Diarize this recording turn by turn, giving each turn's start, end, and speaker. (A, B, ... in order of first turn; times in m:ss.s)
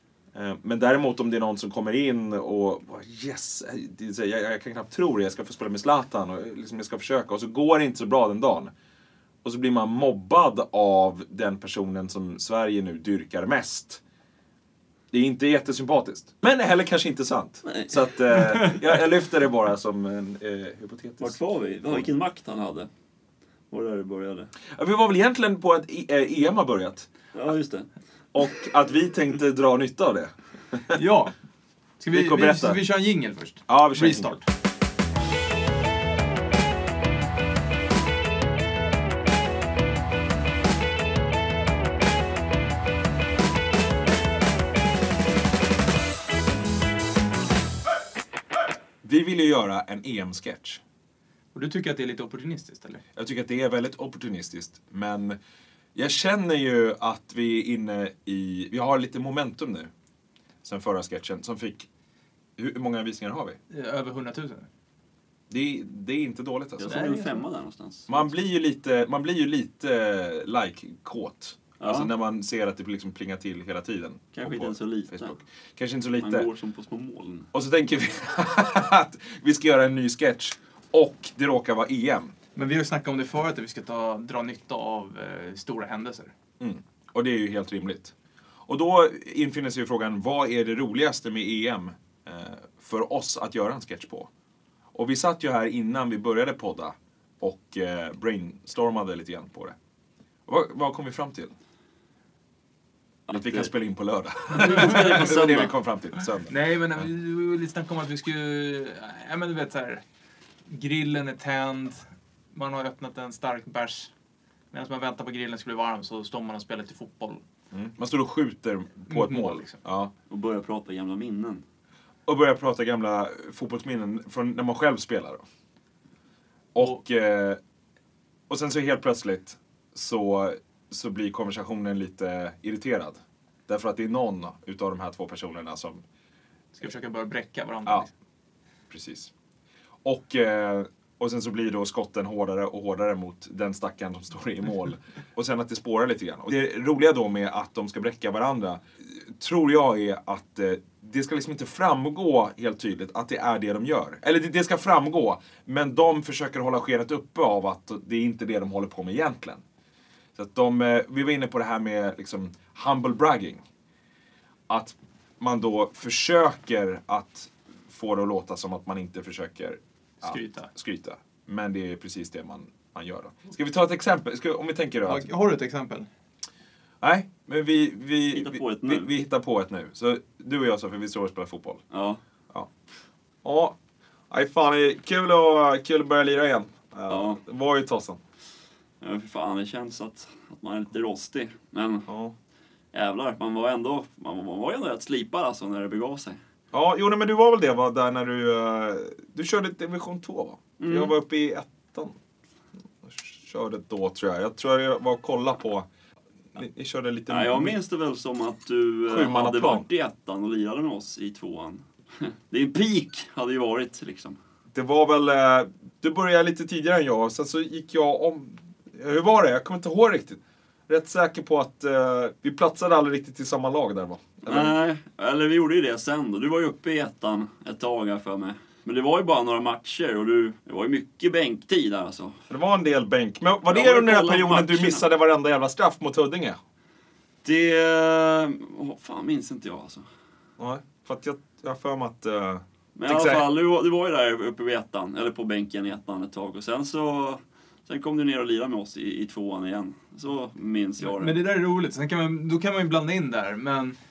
0:00.3-0:08.7 A
0:09.4-0:14.0 A
0:15.1-0:22.1 A
0:17.7-0:18.7 B
0:21.2-0:22.9 B
0:23.7-0:24.5 B
0:24.7-0:27.5 A
0:27.3-0:27.9 B
0:28.3-0:31.0 A
0:30.9-0:31.4 C
0:32.0-0:34.5 C
0:32.1-0:32.8 A
0:33.7-0:34.4 A
0:49.0-0:50.8 A
0:51.5-0:53.0 C
0:53.2-0:55.4 A
0:56.0-0:59.9 A
1:00.6-1:01.9 A
1:02.6-1:03.6 A
1:03.7-1:04.7 C
1:05.5-1:07.0 A
1:06.8-1:08.1 B
1:06.9-1:07.4 C
1:08.1-1:16.5 A
1:11.8-1:12.1 B
1:14.3-1:15.3 B
1:16.2-1:17.5 B
1:17.5-1:22.3 A
1:22.6-1:26.3 C
1:26.6-1:28.1 A
1:28.7-1:34.3 A
1:34.9-1:39.8 A
1:40.5-1:41.6 A
1:43.3-1:43.7 B
1:43.3-1:47.0 A
1:44.5-1:45.7 B
1:46.5-1:50.0 C
1:50.7-1:54.1 C
1:54.7-1:57.4 C
1:57.7-2:00.1 A
1:59.1-1:59.8 C
2:00.3-2:01.6 B
2:02.3-2:05.4 A
2:06.7-2:07.6 A
2:08.5-2:16.0 A
2:16.7-2:18.1 C
2:18.9-2:19.3 A
2:20.0-2:39.6 A
2:40.4-2:43.6 A
2:44.7-2:55.3 A
2:50.2-2:50.7 C
2:55.0-2:56.1 C
2:57.0-3:01.8 A
2:58.3-2:59.1 B
3:01.9-3:02.2 B
3:03.4-3:03.8 A
3:04.3-3:08.2 A
3:07.1-3:07.4 B
3:09.0-3:12.1 B
3:12.1-3:12.4 A
3:12.9-3:16.4 B
3:16.7-3:22.2 A
3:20.8-3:21.1 B
3:23.0-3:25.9 A
3:26.5-3:27.8 A
3:27.3-3:34.4 B
3:29.1-3:29.9 A
3:34.7-3:44.8 A
3:44.5-3:52.4 B
3:52.5-3:56.6 A
3:53.7-3:55.0 B
3:57.4-4:00.1 B
4:00.6-4:03.5 A
4:03.0-4:11.4 B
4:11.2-4:14.0 C